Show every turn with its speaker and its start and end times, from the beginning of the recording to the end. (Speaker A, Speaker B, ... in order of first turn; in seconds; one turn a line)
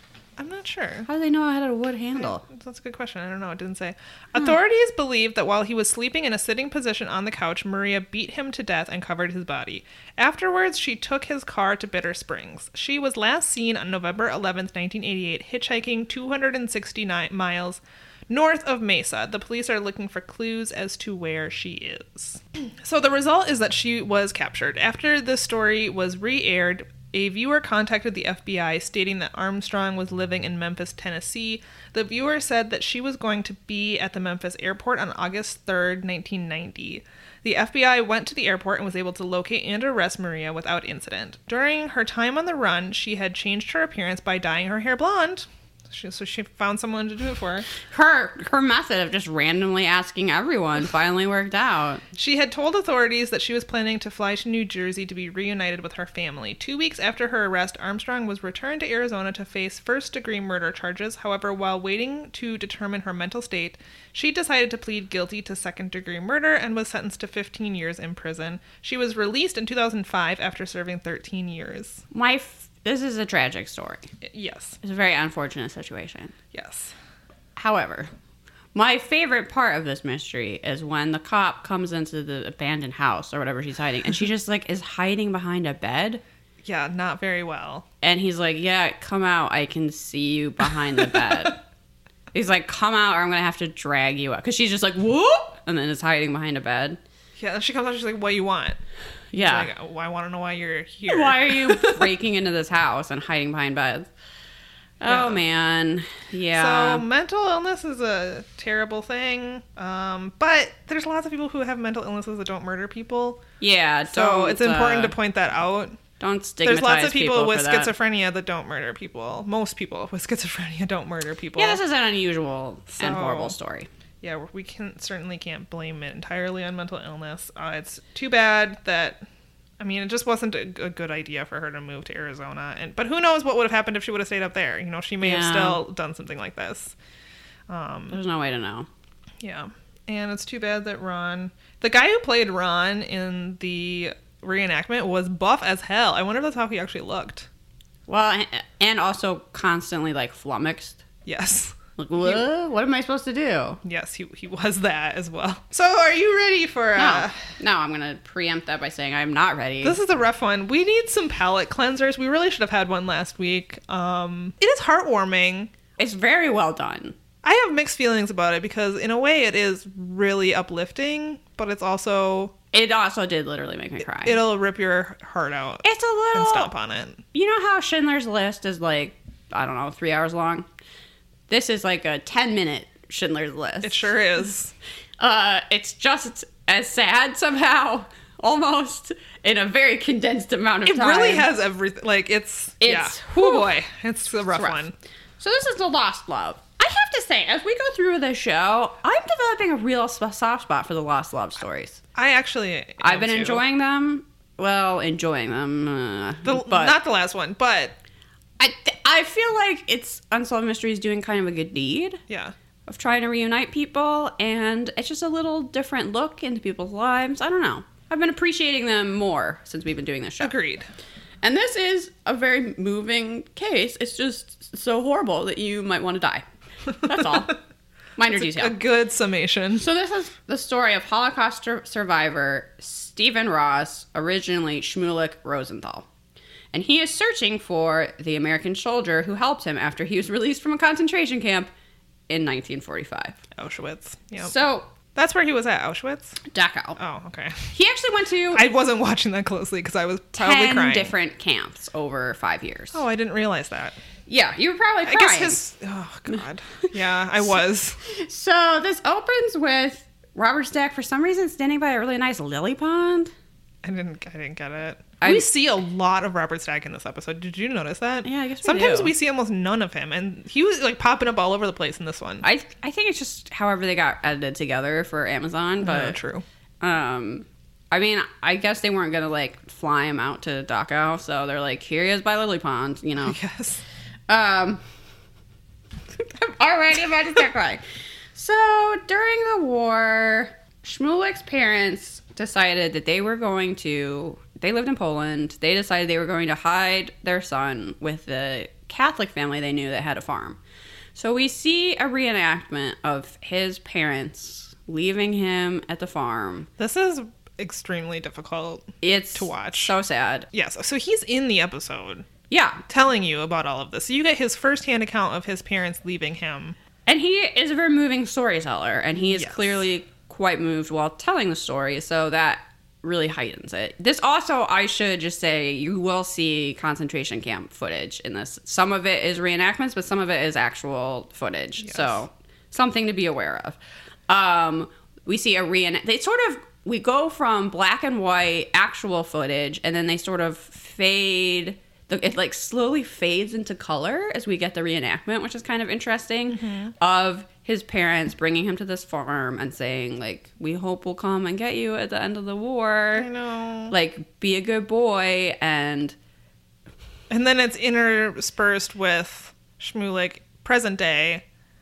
Speaker A: 0.4-1.1
Speaker B: 1.1-2.4
Speaker A: 2.2-47.7
Speaker B: 47.9-52.0
Speaker A: 52.1-72.0
Speaker B: 72.1-74.1
Speaker A: 74.2-74.8
Speaker B: 74.8-76.3
Speaker A: 76.5-76.9
Speaker B: 77.5-78.1
Speaker B: 78.7-86.2
Speaker A: 86.6-87.8
Speaker B: 88.0-91.6
Speaker A: 91.0-91.5
Speaker B: 92.3-97.0
Speaker A: 97.4-98.8
Speaker B: 99.3-99.7
Speaker A: 99.4-102.1
Speaker B: 101.1-104.1
Speaker B: 105.0-107.0
Speaker A: 105.0-105.4
Speaker A: 106.5-113.4
Speaker B: 113.6-115.2
Speaker A: 114.1-116.0
Speaker B: 116.2-117.9
Speaker A: 116.6-121.8
Speaker B: 121.5-123.9
Speaker A: 123.0-123.5
Speaker A: 124.2-129.2
Speaker A: 129.8-136.9
Speaker B: 135.2-135.8
Speaker A: 137.7-138.2
Speaker B: 138.1-138.9
Speaker A: 139.4-147.5
Speaker B: 148.1-151.0
Speaker A: 151.2-152.4
Speaker B: 152.0-153.8
Speaker A: 153.8-157.3
Speaker B: 156.9-160.0
Speaker A: 159.8-165.7
Speaker B: 166.0-167.2
Speaker A: 167.4-172.5
Speaker B: 172.7-174.4
Speaker A: 174.1-177.2
Speaker B: 175.8-176.7
Speaker B: 177.3-180.7
Speaker B: 181.5-184.1
Speaker A: 183.8-184.7
Speaker B: 185.2-191.5
Speaker A: 190.8-194.9
Speaker B: 192.8-193.7
Speaker B: 194.5-194.8
Speaker B: 195.4-202.0
Speaker A: 202.1-203.6
Speaker B: 203.0-207.0
Speaker A: 206.4-207.9
Speaker B: 208.6-212.2
Speaker A: 212.3-212.5
Speaker B: 212.9-220.6
Speaker A: 220.4-220.9
Speaker B: 221.4-227.6
Speaker B: 228.2-228.8
Speaker A: 228.3-229.8
Speaker B: 229.8-236.1
Speaker B: 236.7-241.7
Speaker B: 242.3-243.4
Speaker A: 243.6-244.5
Speaker B: 244.4-244.9
Speaker A: 245.1-246.4
Speaker B: 246.4-247.0
Speaker A: 247.0-247.7
Speaker B: 247.7-248.7
Speaker A: 248.5-251.1
Speaker B: 250.3-253.0
Speaker A: 252.9-254.0
Speaker B: 254.3-255.6
Speaker A: 255.1-258.0
Speaker B: 258.0-263.3
Speaker A: 263.8-272.4
Speaker B: 265.2-265.5
Speaker B: 268.2-269.1
Speaker B: 272.4-276.2
Speaker A: 275.8-276.4
Speaker B: 276.8-283.4
Speaker A: 283.2-283.8
Speaker B: 284.3-284.8
Speaker B: 286.1-287.8
Speaker B: 288.3-300.6
Speaker B: 301.1-306.7
Speaker A: 306.8-309.9
Speaker B: 309.0-310.5
Speaker A: 310.5-312.2
Speaker B: 312.5-312.8
Speaker A: 312.9-316.8
Speaker B: 317.1-333.8
Speaker A: 319.3-319.8
Speaker A: 331.8-332.2
Speaker B: 334.3-353.3
Speaker A: 346.5-346.9
Speaker A: 353.1-353.9
Speaker B: 353.9-356.1
Speaker A: 357.3-361.4